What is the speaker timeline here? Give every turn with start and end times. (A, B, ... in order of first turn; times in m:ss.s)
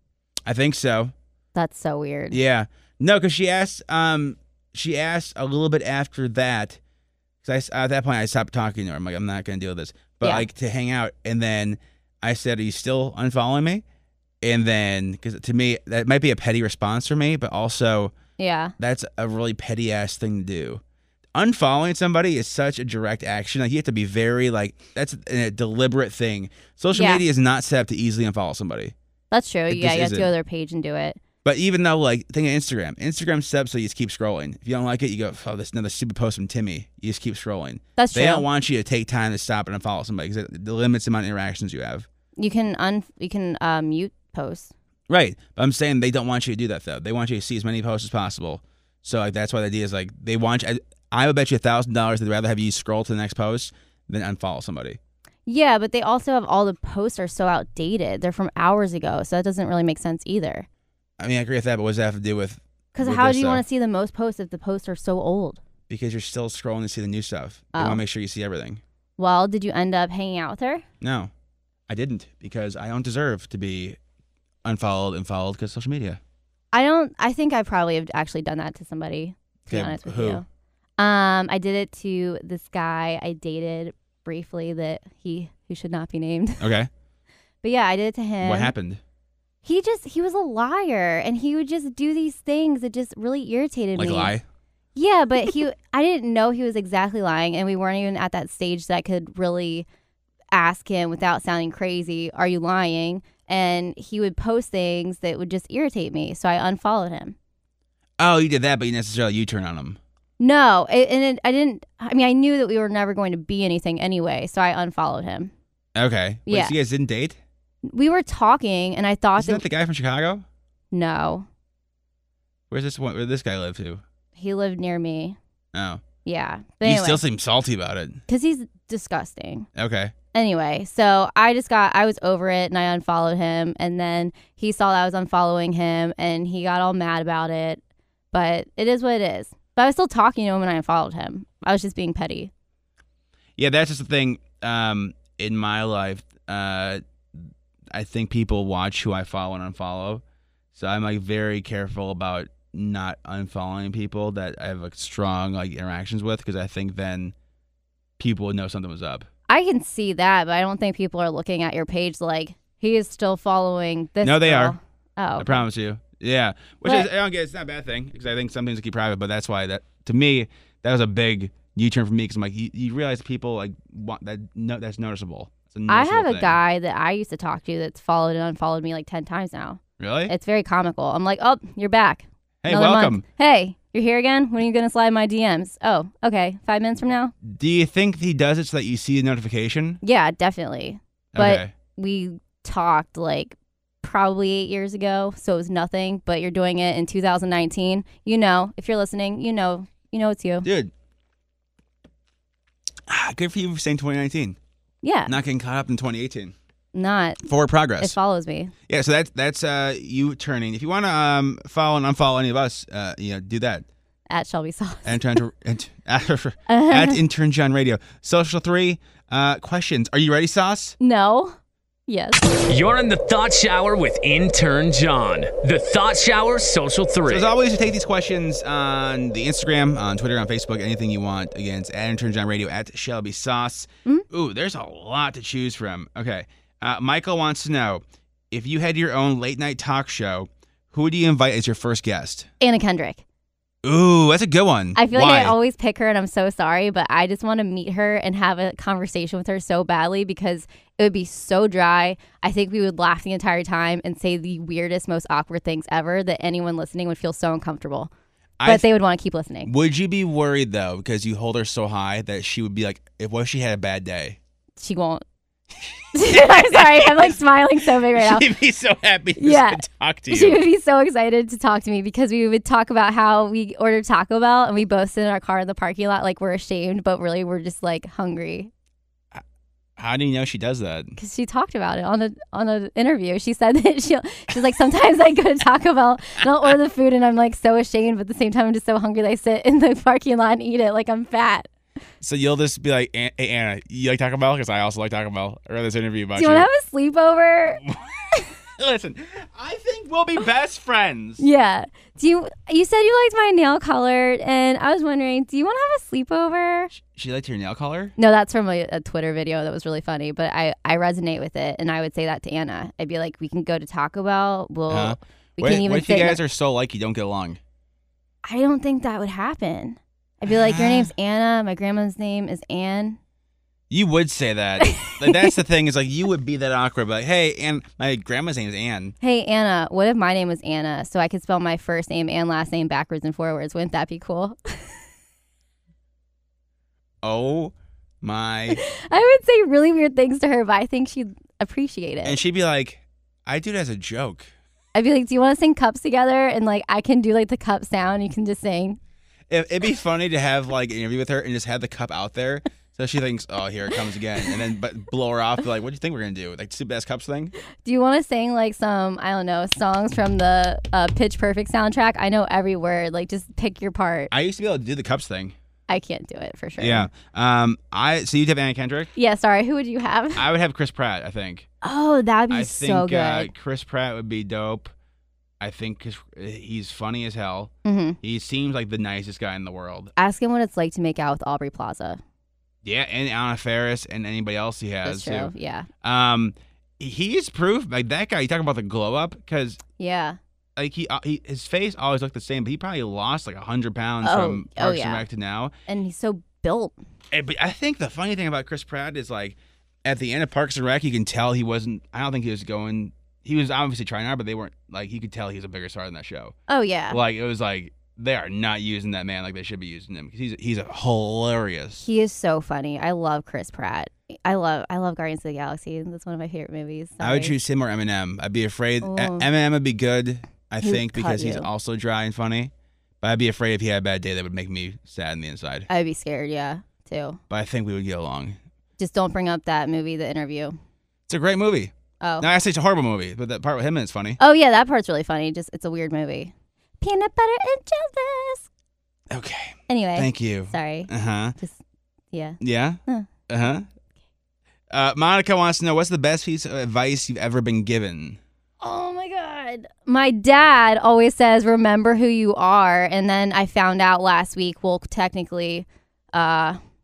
0:00.5-0:01.1 A
0:01.6-0:02.4 B
0:02.3-0:06.8 A
0:07.4-0:13.8 A
0:14.4-0:18.1 A
0:18.4-0:18.7 B
0:18.8-0:20.8 A
0:21.4-0:28.9 A
0:26.9-0:27.2 B
0:29.3-0:31.2 B
0:29.7-0:30.3 A
0:31.4-0:42.1 A
0:38.0-0:38.4 B
0:42.4-0:44.7 B
0:45.1-0:55.0 A
0:55.5-1:00.7 B
1:01.2-1:03.6 A
1:03.0-1:05.6 B
1:05.9-1:08.8 A
1:07.7-1:08.0 B
1:09.2-1:10.8 B
1:11.0-1:11.3 A
1:11.9-1:14.0 A
1:14.6-1:16.2 A
1:16.7-1:20.4 B
1:19.7-1:20.4 A
1:21.0-1:26.6 B
1:26.6-1:26.9 A
1:27.6-1:28.7 B
1:28.4-1:29.0 A
1:29.6-1:34.3 B
1:34.0-1:34.4 A
1:35.0-1:39.9 B
1:40.5-1:47.4 B
1:48.2-1:50.0 A
1:50.4-1:55.5 B
1:56.0-1:57.4 A
1:56.5-1:56.7 B
1:57.8-1:59.6 B
1:59.4-2:00.4 A
2:00.9-2:01.5 B
2:02.7-2:04.0 A
2:04.4-2:05.4 B
2:05.7-2:06.0 A
2:06.2-2:07.2 B
2:06.8-2:08.2 A
2:08.3-2:09.7 B
2:09.8-2:10.1 A
2:10.3-2:17.8 B
2:18.3-2:22.5 B
2:23.6-2:27.0 A
2:27.9-2:30.2 A
2:30.7-2:37.3 A
2:38.2-2:39.3 A
2:39.5-2:45.6 B
2:44.2-2:44.8 A
2:45.4-2:56.6 A
2:55.9-3:07.3 B
3:00.0-3:00.3 A
3:02.6-3:03.2 A
3:07.4-3:10.0 A
3:10.0-3:20.7 B
3:11.4-3:11.7 A
3:20.6-3:20.9 A
3:23.1-3:24.6 A
3:25.0-3:25.4 B
3:25.3-3:26.5 A
3:26.9-3:27.4 B
3:27.4-3:28.2 A
3:28.0-3:28.7 B
3:28.9-3:33.8 A
3:34.3-3:35.2 B
3:35.0-3:41.0 A
3:36.7-3:37.2 B
3:41.0-3:41.6 B
3:42.1-3:42.4 B
3:42.6-3:47.5 C
3:47.3-4:02.5 A
4:02.6-4:03.2 B
4:03.8-4:05.6 A
4:05.0-4:18.1 B
4:18.6-4:18.9 A
4:18.6-4:19.7 B
4:19.7-4:24.4 A
4:24.8-4:25.2 B
4:26.1-4:27.4 A
4:26.1-4:28.5 B
4:28.1-4:30.6 A
4:29.4-4:38.7 B
4:40.0-4:41.2 A
4:41.2-4:51.7 B
4:52.2-4:56.7 A
4:56.4-4:57.8 B
4:57.8-5:01.4 A
5:01.4-5:06.9 B
5:06.9-5:08.2 A
5:08.2-5:16.4 B
5:14.9-5:17.6 A
5:18.4-5:23.2 B
5:20.5-5:21.1 A
5:23.9-5:29.2 A
5:24.8-5:25.5 B
5:29.2-5:34.8 B
5:37.2-5:38.8 A
5:38.7-5:42.4 B
5:42.2-5:44.5 A
5:45.0-5:49.0 B
5:49.5-5:57.5 A
5:57.8-6:04.3 B
6:04.3-6:05.6 A
6:05.9-6:07.1 B
6:06.8-6:09.1 A
6:09.2-6:10.5 B
6:10.4-6:11.7 A
6:11.8-6:13.5 B
6:12.5-6:14.9 A
6:15.6-6:20.1 A
6:17.8-6:18.2 B
6:20.2-6:22.2 B
6:22.8-6:25.5 A
6:25.0-6:25.9 B
6:26.0-6:29.8 A
6:30.0-6:30.4 B
6:30.8-6:35.7 A
6:34.2-6:35.2 B
6:35.9-6:37.0 B
6:37.3-6:46.6 A
6:46.7-6:47.2 B
6:47.1-6:52.1 A
6:52.0-6:57.6 B
6:57.2-7:05.9 A
6:59.0-6:59.5 B
7:00.8-7:01.7 B
7:05.9-7:07.4 B
7:07.5-7:08.6 A
7:09.0-7:10.8 B
7:11.3-7:14.4 A
7:14.4-7:18.7 B
7:19.3-7:21.6 A
7:19.9-7:21.8 B
7:22.3-7:23.3 B
7:22.6-7:23.9 A
7:24.9-7:28.4 A
7:28.8-7:36.8 B